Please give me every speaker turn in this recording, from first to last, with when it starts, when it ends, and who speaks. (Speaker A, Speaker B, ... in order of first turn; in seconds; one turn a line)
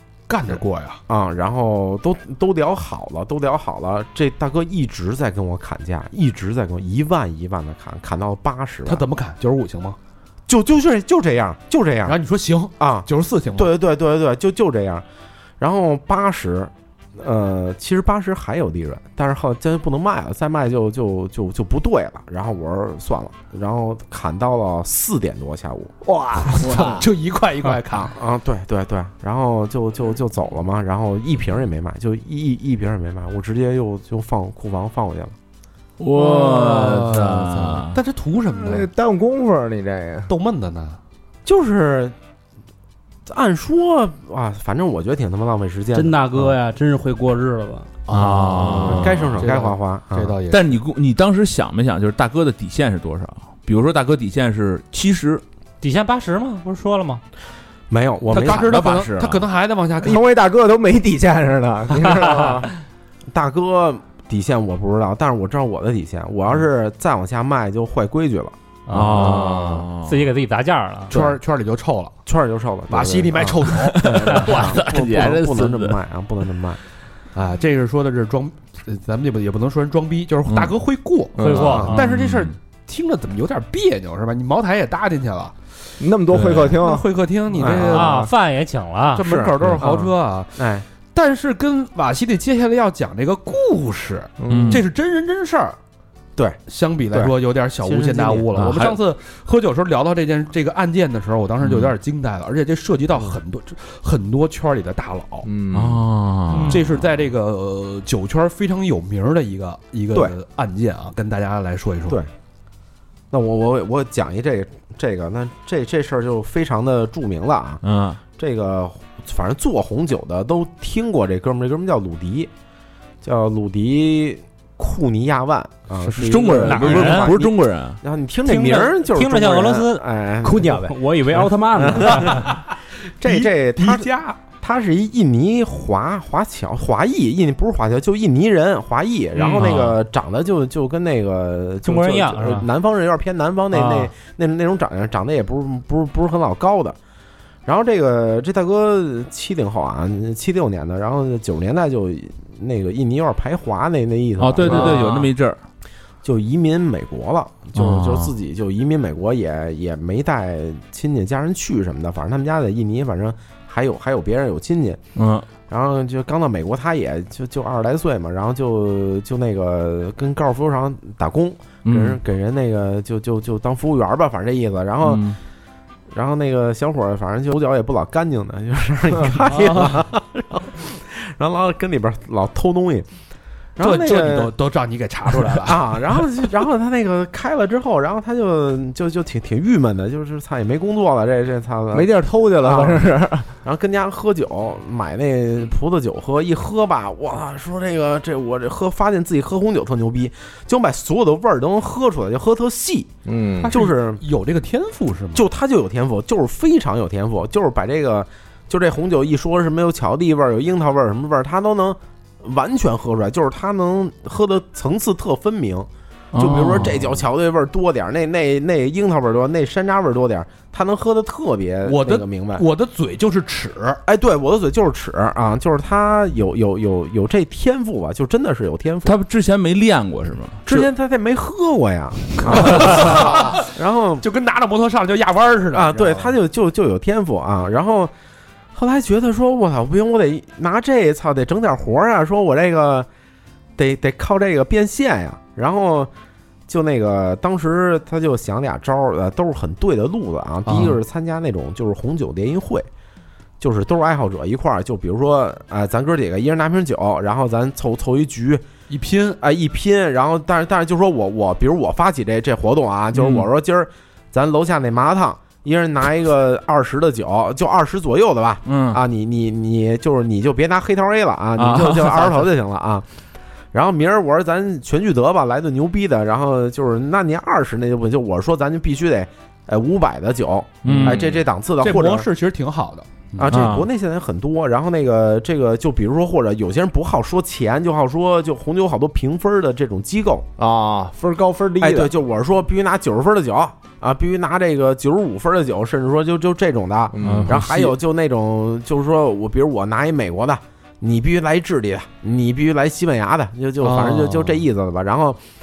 Speaker A: 0.3-1.0
Speaker B: 1.1-9.0
Speaker A: 8.8-10.0
Speaker B: 10.5-12.2
Speaker A: 12.1-13.7
Speaker B: 12.8-15.1
Speaker B: 15.6-25.9
Speaker C: 26.0-27.1
Speaker A: 26.4-28.1
Speaker B: 28.0-35.4
Speaker D: 36.0-38.0
Speaker A: 36.1-38.9
Speaker C: 38.5-40.3
Speaker A: 40.3-41.0
Speaker B: 41.4-42.1
Speaker B: 43.2-46.1
Speaker E: 45.9-48.0
Speaker A: 48.1-50.8
Speaker D: 48.1-49.2
Speaker B: 48.9-50.4
Speaker D: 50.5-55.4
Speaker F: 55.8-57.2
Speaker B: 57.9-59.5
Speaker A: 58.3-60.2
Speaker C: 60.0-62.7
Speaker F: 62.1-62.4
Speaker B: 63.3-68.5
Speaker F: 68.9-71.1
Speaker D: 68.9-70.2
Speaker C: 69.0-69.9
Speaker B: 71.1-71.4
Speaker A: 71.1-72.1
Speaker B: 72.2-76.8
Speaker A: 72.9-74.6
Speaker D: 73.7-75.9
Speaker A: 77.3-85.5
Speaker D: 80.5-80.8
Speaker C: 81.3-82.0
Speaker F: 81.4-82.1
Speaker D: 81.9-82.5
Speaker C: 86.0-88.3
Speaker A: 86.3-88.3
Speaker D: 86.4-86.7
Speaker B: 87.6-87.9
Speaker F: 87.9-89.2
Speaker A: 89.1-90.6
Speaker B: 89.2-90.8
Speaker A: 91.1-95.8
Speaker C: 94.4-94.8
Speaker D: 94.5-94.8
Speaker A: 96.7-105.5
Speaker B: 97.8-98.8
Speaker D: 98.5-99.0
Speaker D: 101.6-101.9
Speaker C: 105.5-106.0
Speaker D: 105.7-106.8
Speaker F: 106.5-106.8
Speaker A: 106.7-112.2
Speaker B: 113.3-122.5
Speaker D: 117.8-118.2
Speaker B: 123.2-131.0
Speaker D: 126.0-128.0
Speaker F: 126.6-127.3
Speaker F: 128.4-130.0
Speaker E: 130.6-132.5
Speaker B: 131.7-147.0
Speaker A: 133.3-134.3
Speaker D: 139.4-140.0
Speaker F: 141.8-142.7
Speaker F: 143.7-144.1
Speaker B: 147.6-155.3
Speaker D: 154.4-155.6
Speaker B: 156.2-165.0
Speaker D: 157.7-158.3
Speaker D: 165.2-165.5
Speaker B: 165.7-175.3
Speaker D: 171.8-172.2
Speaker D: 175.0-175.4
Speaker B: 176.1-183.1
Speaker A: 179.5-180.0
Speaker B: 183.8-184.5
Speaker A: 183.8-186.2
Speaker B: 185.3-193.0
Speaker C: 191.9-193.5
Speaker B: 193.6-203.1
Speaker C: 203.2-203.7
Speaker A: 203.6-205.4
Speaker B: 203.7-204.2
Speaker B: 205.3-222.7
Speaker D: 216.3-217.1
Speaker A: 221.8-224.0
Speaker B: 224.1-229.1
Speaker D: 229.0-230.8
Speaker B: 230.7-234.2
Speaker A: 232.5-233.7
Speaker A: 234.2-236.3
Speaker B: 235.7-238.1
Speaker B: 238.7-243.1
Speaker B: 243.8-246.1
Speaker B: 246.7-252.9
Speaker A: 250.6-251.0
Speaker B: 253.6-258.6
Speaker A: 258.9-259.4
Speaker B: 259.4-273.1
Speaker D: 263.1-263.5
Speaker D: 268.6-269.0
Speaker D: 271.6-272.4
Speaker B: 273.7-282.3
Speaker D: 280.8-281.3
Speaker A: 280.9-281.2
Speaker A: 281.8-283.6
Speaker B: 283.4-290.5
Speaker D: 283.5-283.9
Speaker C: 290.6-292.1
Speaker B: 291.8-305.4
Speaker C: 297.1-297.6
Speaker D: 297.2-297.9
Speaker A: 303.8-304.6